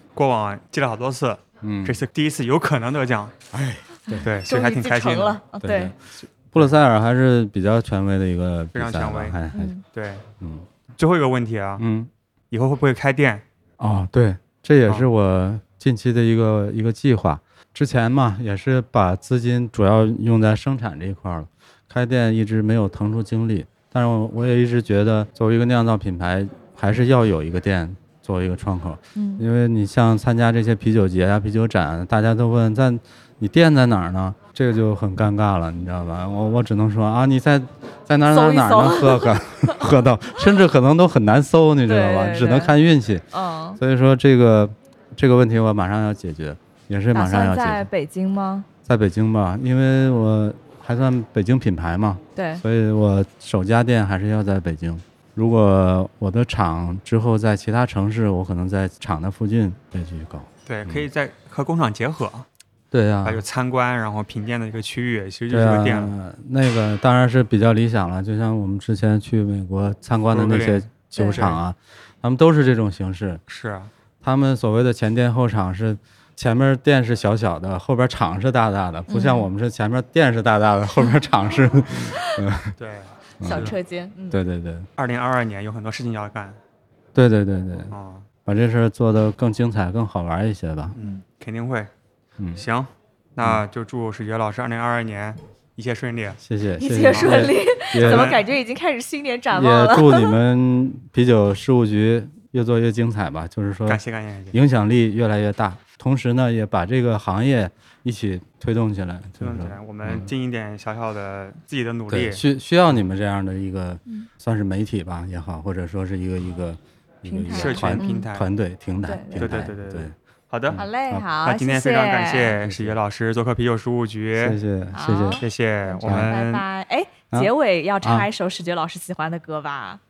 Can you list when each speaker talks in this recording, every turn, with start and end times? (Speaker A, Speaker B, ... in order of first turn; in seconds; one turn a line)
Speaker A: 0.2-3.3
Speaker B: 1.6-2.0
Speaker B: 3.5-4.3
Speaker A: 4.2-5.4
Speaker C: 4.3-5.9
Speaker B: 5.6-6.0
Speaker B: 6.5-9.7
Speaker A: 8.7-9.4
Speaker C: 9.5-9.8
Speaker A: 9.9-10.2
Speaker B: 10.4-10.7
Speaker A: 11.0-11.8
Speaker B: 11.8-12.1
Speaker A: 12.5-13.4
Speaker B: 13.8-43.2
Speaker C: 29.1-29.5
Speaker C: 38.3-39.8
Speaker C: 41.9-42.8
Speaker C: 43.3-43.8
Speaker B: 43.8-47.9
Speaker C: 47.1-48.7
Speaker B: 48.9-61.1
Speaker C: 52.4-52.6
Speaker A: 60.7-62.5
Speaker B: 62.9-63.5
Speaker A: 63.2-66.1
Speaker B: 65.5-73.4
Speaker A: 70.3-71.6
Speaker A: 73.5-73.9
Speaker B: 74.2-82.7
Speaker C: 79.1-79.5
Speaker A: 82.8-83.8
Speaker B: 83.4-83.8
Speaker C: 83.4-84.4
Speaker B: 84.3-84.9
Speaker A: 85.0-86.6
Speaker B: 87.2-87.9
Speaker A: 87.9-88.3
Speaker B: 88.5-91.0
Speaker A: 91.0-91.9
Speaker A: 92.5-96.4
Speaker B: 96.4-98.4
Speaker C: 96.8-100.3
Speaker A: 97.2-98.4
Speaker B: 99.5-110.3
Speaker A: 103.9-104.6
Speaker A: 109.4-112.4
Speaker B: 112.1-120.1
Speaker C: 117.3-118.3
Speaker A: 117.5-118.5
Speaker C: 119.1-119.7
Speaker A: 119.4-120.8
Speaker B: 120.7-121.3
Speaker C: 120.8-122.6
Speaker A: 121.4-124.6
Speaker B: 122.6-123.0
Speaker B: 124.4-125.4
Speaker C: 124.9-130.0
Speaker A: 125.4-126.6
Speaker B: 126.0-126.3
Speaker B: 128.0-128.3